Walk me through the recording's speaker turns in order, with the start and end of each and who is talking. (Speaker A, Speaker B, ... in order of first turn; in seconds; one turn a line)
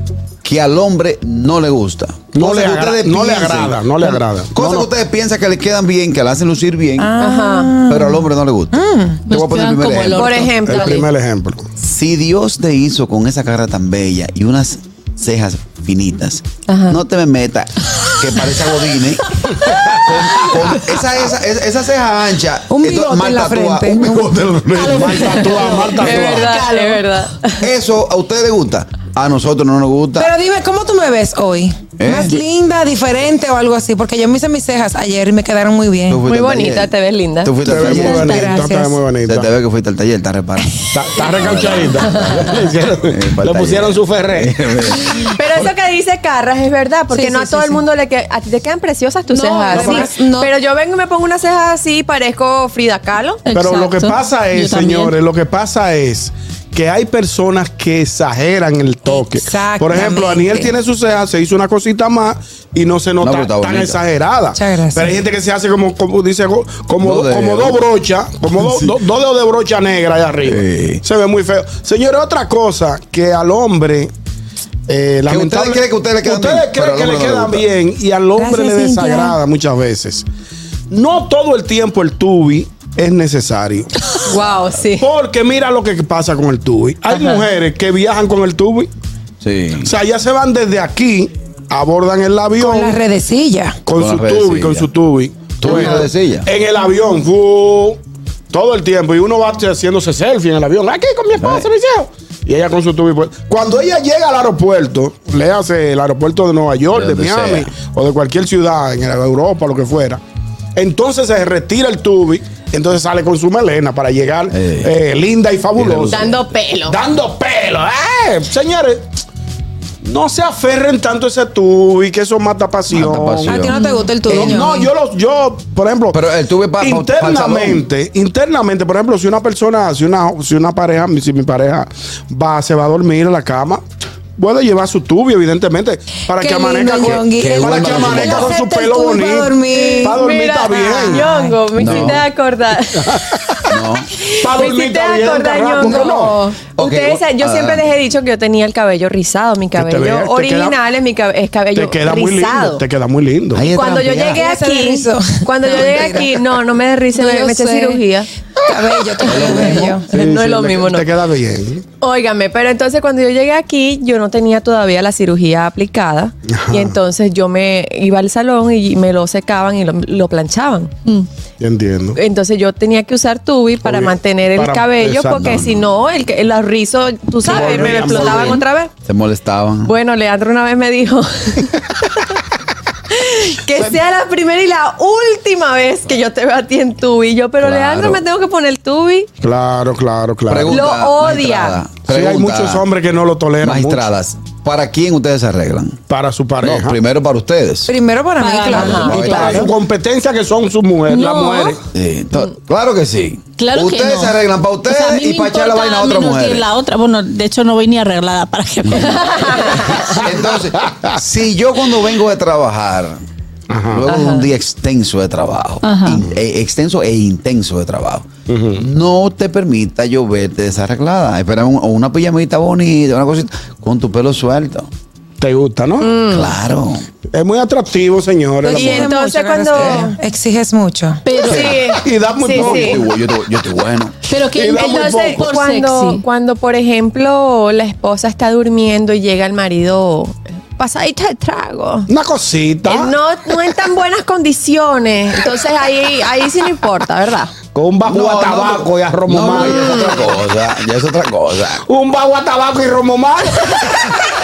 Speaker A: 0.4-7.1
Speaker B: 2.3-4.9
Speaker C: 7.0-9.2
Speaker D: 7.2-7.7
Speaker A: 7.8-10.4
Speaker E: 9.3-11.1
Speaker D: 10.1-11.0
Speaker B: 10.6-11.7
Speaker A: 11.8-25.3
Speaker D: 16.7-17.0
Speaker C: 22.7-24.4
Speaker B: 24.7-26.5
Speaker E: 24.8-27.2
Speaker D: 25.9-27.6
Speaker A: 27.6-30.3
Speaker C: 30.2-36.2
Speaker A: 32.0-32.4
Speaker A: 36.1-38.5
Speaker D: 36.3-37.5
Speaker B: 37.6-39.5
Speaker E: 37.7-38.6
Speaker C: 38.2-39.0
Speaker A: 39.2-45.7
Speaker B: 40.9-44.5
Speaker D: 45.3-53.4
Speaker C: 47.1-47.8
Speaker C: 49.3-50.5
Speaker B: 49.7-50.1
Speaker E: 53.4-55.1
Speaker B: 53.5-74.1
Speaker C: 59.1-60.7
Speaker A: 63.2-64.0
Speaker C: 64.5-65.2
Speaker A: 67.0-67.8
Speaker A: 68.6-69.0
Speaker A: 70.4-71.0
Speaker B: 74.9-80.2
Speaker A: 75.2-77.7
Speaker C: 78.4-79.4
Speaker B: 80.9-83.9
Speaker D: 84.2-85.0
Speaker B: 85.0-88.9
Speaker D: 87.1-87.4
Speaker A: 89.4-89.9
Speaker B: 89.8-93.0
Speaker C: 92.6-93.8
Speaker B: 93.8-98.0
Speaker A: 93.9-94.9
Speaker A: 95.6-96.5
Speaker B: 98.5-110.2
Speaker A: 101.4-101.7
Speaker A: 106.9-107.7
Speaker B: 110.8-116.3
Speaker A: 114.5-114.9
Speaker A: 115.8-116.5
Speaker D: 116.1-117.0
Speaker B: 116.9-119.1
Speaker B: 120.0-123.7
Speaker A: 122.9-123.8
Speaker C: 123.5-124.9
Speaker E: 123.8-124.1
Speaker B: 124.2-126.2
Speaker A: 126.1-127.8
Speaker B: 126.8-133.8
Speaker B: 134.4-141.3
Speaker C: 136.3-140.2
Speaker A: 137.0-138.6
Speaker D: 139.8-143.1
Speaker C: 141.0-141.7
Speaker A: 141.8-142.2
Speaker B: 141.8-142.2
Speaker B: 143.0-143.6
Speaker A: 143.7-144.1
Speaker D: 144.2-152.8
Speaker B: 144.4-146.3
Speaker C: 145.9-146.1
Speaker A: 146.8-147.8
Speaker B: 149.8-150.8
Speaker B: 151.7-153.7
Speaker A: 153.5-154.4
Speaker D: 153.7-158.3
Speaker C: 154.3-156.4
Speaker C: 157.1-158.0
Speaker C: 158.7-160.1
Speaker A: 159.2-160.0
Speaker B: 160.1-161.8
Speaker D: 160.1-161.1
Speaker D: 162.0-170.9
Speaker B: 166.5-166.9
Speaker B: 171.6-172.2
Speaker D: 172.1-178.9
Speaker B: 173.8-175.6
Speaker A: 175.3-175.8
Speaker C: 177.4-178.2
Speaker B: 177.4-178.6
Speaker A: 179.0-179.9
Speaker D: 179.8-181.9
Speaker D: 183.1-189.3
Speaker A: 187.6-188.2
Speaker B: 189.4-190.8
Speaker A: 190.5-192.8
Speaker D: 190.7-191.8
Speaker B: 192.1-194.1
Speaker A: 193.6-196.0
Speaker B: 196.1-197.0
Speaker A: 196.6-197.9
Speaker C: 197.9-199.7
Speaker E: 198.4-199.7
Speaker A: 198.8-199.7
Speaker B: 199.1-201.8
Speaker E: 201.1-201.8
Speaker A: 201.9-206.7
Speaker E: 203.6-209.9
Speaker D: 209.3-210.1
Speaker A: 209.7-213.2
Speaker B: 210.2-211.1
Speaker B: 213.7-214.1
Speaker A: 213.9-224.9
Speaker D: 214.1-214.5
Speaker E: 215.8-216.2
Speaker B: 218.5-218.8
Speaker B: 225.4-226.1
Speaker D: 226.0-226.5
Speaker A: 226.3-227.1
Speaker B: 227.3-229.1
Speaker C: 228.6-231.2
Speaker D: 228.7-230.1
Speaker E: 231.2-232.0
Speaker D: 231.4-233.0
Speaker B: 231.5-233.1
Speaker A: 232.5-234.2
Speaker E: 234.3-236.2
Speaker B: 234.5-235.5
Speaker D: 234.7-242.1
Speaker B: 242.1-243.1
Speaker D: 242.8-247.5
Speaker B: 247.7-250.2
Speaker A: 248.0-251.8
Speaker D: 249.7-250.2
Speaker B: 251.9-254.1